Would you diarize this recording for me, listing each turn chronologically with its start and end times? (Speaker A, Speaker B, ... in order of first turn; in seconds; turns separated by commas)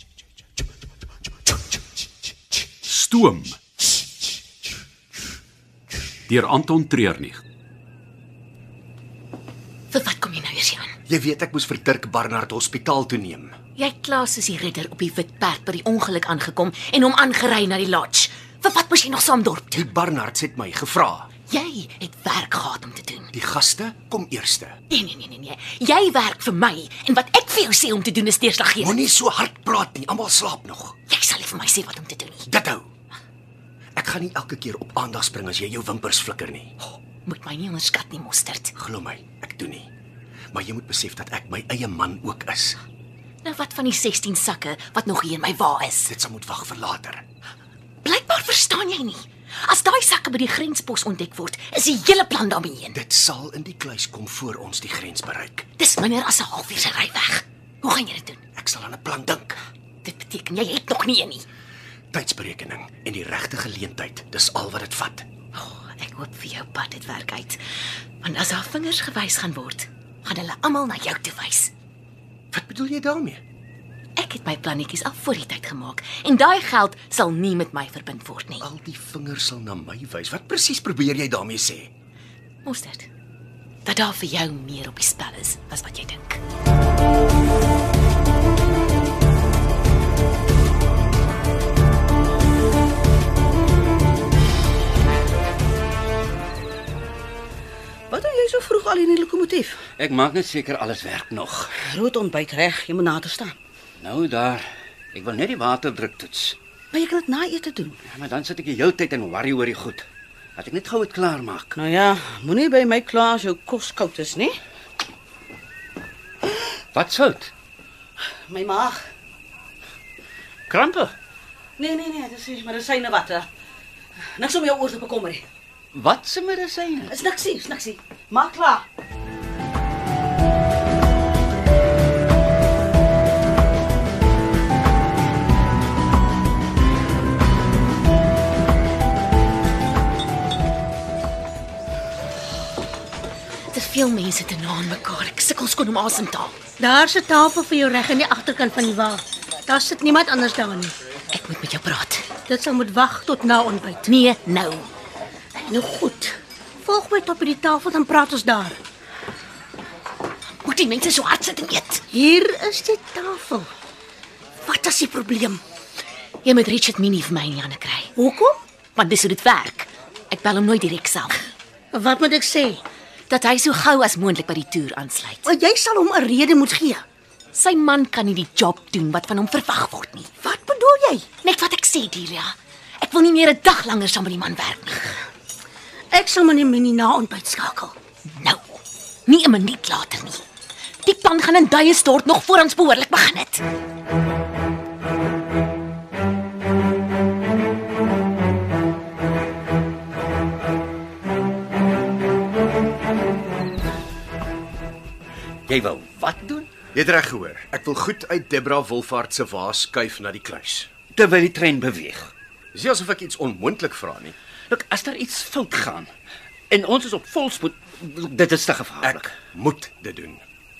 Speaker A: 2.8-3.5, Speaker A: 6.3-7.4, Speaker B: 9.9-10.9, Speaker C: 11.1-13.5, Speaker B: 13.8-19.8, Speaker C: 19.7-21.3, Speaker B: 21.5-23.3, Speaker C: 23.3-24.8, Speaker B: 24.9-29.0, Speaker C: 28.8-30.9, Speaker B: 31.1-32.5, Speaker C: 32.5-32.9, Speaker C: 34.0-36.7, Speaker B: 36.8-38.7, Speaker C: 38.7-39.9, Speaker C: 40.5-42.8, Speaker B: 43.4-46.1, Speaker C: 46.1-47.2, Speaker B: 48.0-53.0, Speaker C: 52.9-55.6, Speaker B: 55.8-58.4, Speaker C: 58.5-59.6, Speaker B: 60.0-61.5, Speaker C: 62.1-65.2, Speaker B: 65.5-67.6, Speaker B: 68.2-71.7, Speaker C: 72.5-73.4, Speaker B: 74.2-78.7, Speaker C: 78.6-81.9, Speaker B: 82.6-83.1, Speaker B: 83.8-86.4, Speaker D: 98.1-99.8, Speaker E: 100.0-101.8, Speaker D: 101.8-103.5, Speaker E: 104.0-106.6, Speaker D: 106.9-108.0, Speaker E: 108.0-110.0, Speaker E: 110.5-111.8, Speaker D: 111.8-114.6, Speaker E: 116.9-117.5, Speaker D: 118.5-119.0, Speaker E: 120.7-121.1, Speaker D: 121.8-123.5, Speaker D: 124.3-125.5, Speaker E: 125.9-127.2, Speaker D: 127.1-128.8, Speaker B: 143.7-146.6, Speaker F: 146.8-150.9, Speaker B: 151.3-152.3, Speaker F: 152.5-154.1, Speaker B: 154.1-154.9, Speaker F: 155.6-158.8, Speaker B: 160.6-162.1, Speaker F: 162.1-163.7, Speaker F: 164.6-165.6, Speaker B: 166.4-168.1, Speaker F: 168.2-168.6, Speaker B: 168.9-171.4, Speaker F: 171.9-172.8, Speaker B: 173.3-175.5, Speaker F: 175.4-177.0, Speaker B: 177.5-180.3, Speaker F: 180.4-181.3, Speaker B: 181.4-185.2, Speaker F: 186.1-187.9, Speaker B: 188.4-190.4, Speaker B: 191.0-193.6, Speaker E: 205.7-206.7, Speaker C: 206.9-210.9, Speaker E: 211.1-212.3, Speaker C: 212.7-214.3, Speaker E: 214.7-216.1, Speaker E: 216.7-219.3, Speaker C: 219.0-220.4